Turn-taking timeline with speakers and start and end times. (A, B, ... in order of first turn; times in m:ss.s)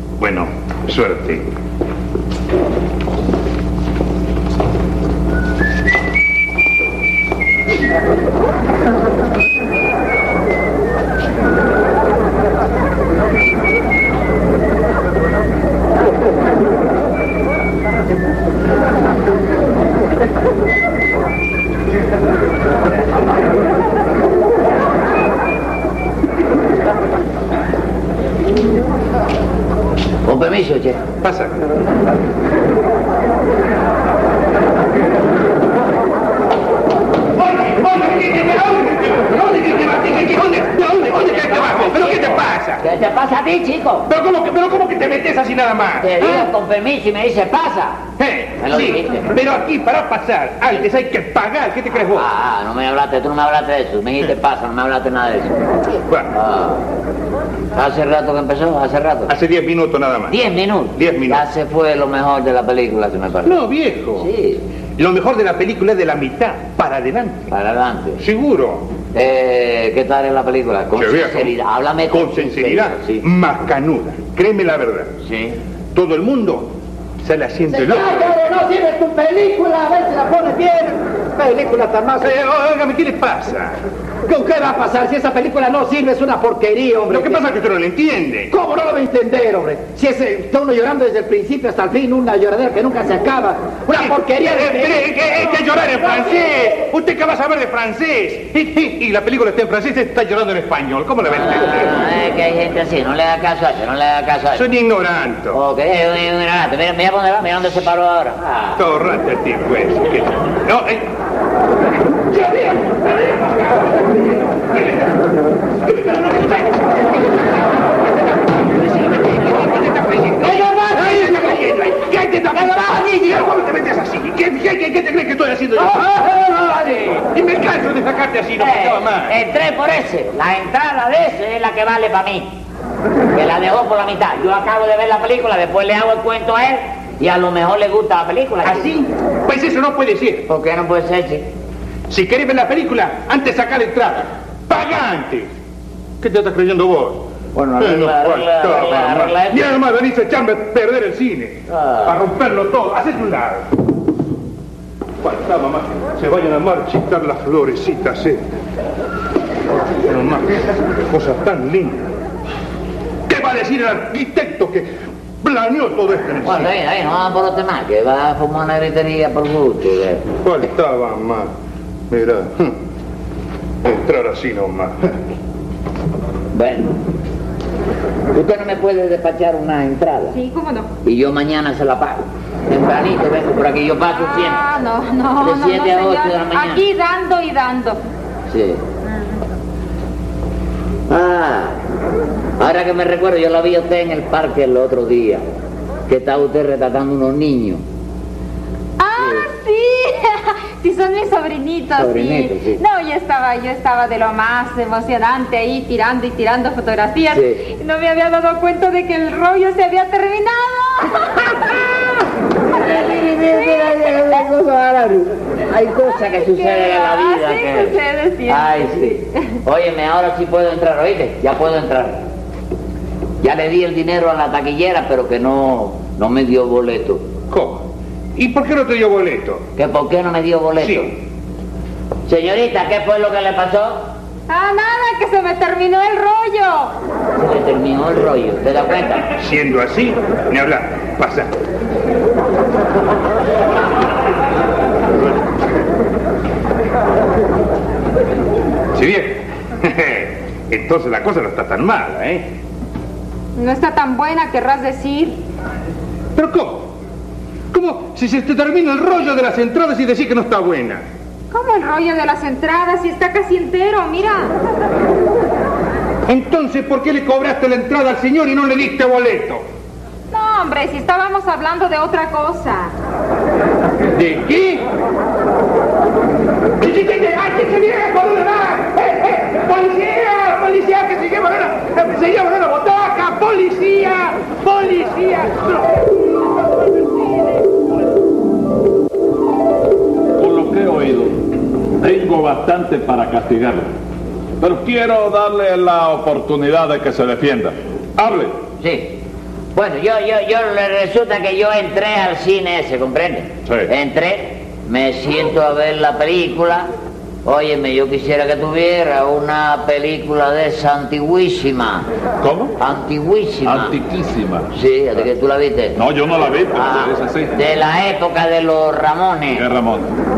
0:00.2-0:01.5 A
0:30.2-0:31.0 B
0:31.2-0:31.6 A
0:37.4-0:42.8 A
0:41.3-0:44.1 B
0:44.1-0:46.5 A
0:46.0-0:48.0 B
0:48.2-0:52.3 A
0:48.6-0:49.3 B
0:52.1-0:55.6 B
0:56.1-0:56.4 A
0:56.3-0:56.8 B
0:57.7-0:59.3 B
0:59.3-1:00.4 A
1:00.3-1:04.6 B
1:00.9-1:01.4 A
1:03.4-1:04.3 A
1:05.0-1:07.5 A
1:07.5-1:08.2 B
1:08.2-1:08.9 A
1:09.1-1:13.2 B
1:10.9-1:11.5 A
1:12.1-1:15.1 A
1:15.2-1:15.6 B
1:15.9-1:18.4 A
1:17.7-1:22.4 C
1:22.2-1:23.8 A
1:24.2-1:27.4 C
1:27.1-1:28.5 A
1:28.5-1:36.3 C
1:33.9-1:42.0 A
1:41.2-1:44.7 B
1:44.5-1:45.6 A
1:45.5-1:48.8 B
1:48.8-1:51.1 A
1:52.4-1:52.9 A
1:54.7-1:55.1 A
1:56.0-1:56.7 A
1:59.1-2:09.4 A
2:01.0-2:01.3 B
2:08.6-2:12.5 B
2:13.3-2:18.9 B
2:18.6-2:20.5 A
2:20.5-2:21.5 B
2:22.1-2:25.5 A
2:26.2-2:27.3 A
2:27.5-2:29.7 B
2:27.8-2:33.7 A
2:31.7-2:32.2 B
2:35.2-2:38.4 A
2:40.0-2:42.1 A
2:43.3-2:46.7 A
2:46.4-2:50.2 B
2:50.4-2:51.5 A
2:52.1-2:52.8 A
2:53.8-2:55.2 A
2:56.5-2:57.0 B
2:58.3-3:00.4 B
3:00.3-3:00.9 D
3:01.0-3:04.6 B
3:04.1-3:08.0 D
3:05.4-3:06.8 B
3:08.5-3:08.8 B
3:11.1-3:11.8 B
3:12.6-3:15.5 B
3:16.1-3:17.8 B
3:19.0-3:31.9 D
3:19.2-3:19.5 B
3:22.0-3:22.8 B
3:27.3-3:27.6 B
3:31.6-3:32.1 B
3:32.6-3:42.2 B
3:33.5-3:34.4 D
3:36.3-3:39.2 D
3:43.4-3:47.2 B
3:47.5-3:49.6 A
3:49.8-3:51.1 B
3:50.8-3:51.1 A
3:52.3-3:54.1 B
3:54.5-3:56.9 D
3:57.4-3:59.3 B
3:59.4-4:01.5 A
4:08.9-4:12.5 A
4:13.6-4:15.4 D
4:16.3-4:16.9 A
4:17.7-4:21.0 A
4:21.5-4:24.5 D
4:26.3-4:29.6 A
4:30.3-4:32.9 D
4:34.1-4:34.9 A
4:36.8-4:45.9 A
4:50.4-4:51.4 E
4:52.0-4:53.9 E
4:54.6-4:58.6 E
4:58.8-4:59.2 B
4:59.7-5:06.9 B
5:03.6-5:03.9 E
5:07.4-5:12.1 B
5:12.4-5:12.8 E
5:12.8-5:13.9 B
5:13.6-5:14.7 E
5:14.7-5:16.0 B
5:15.9-5:17.6 E
5:16.7-5:19.6 B
5:19.5-5:20.1 E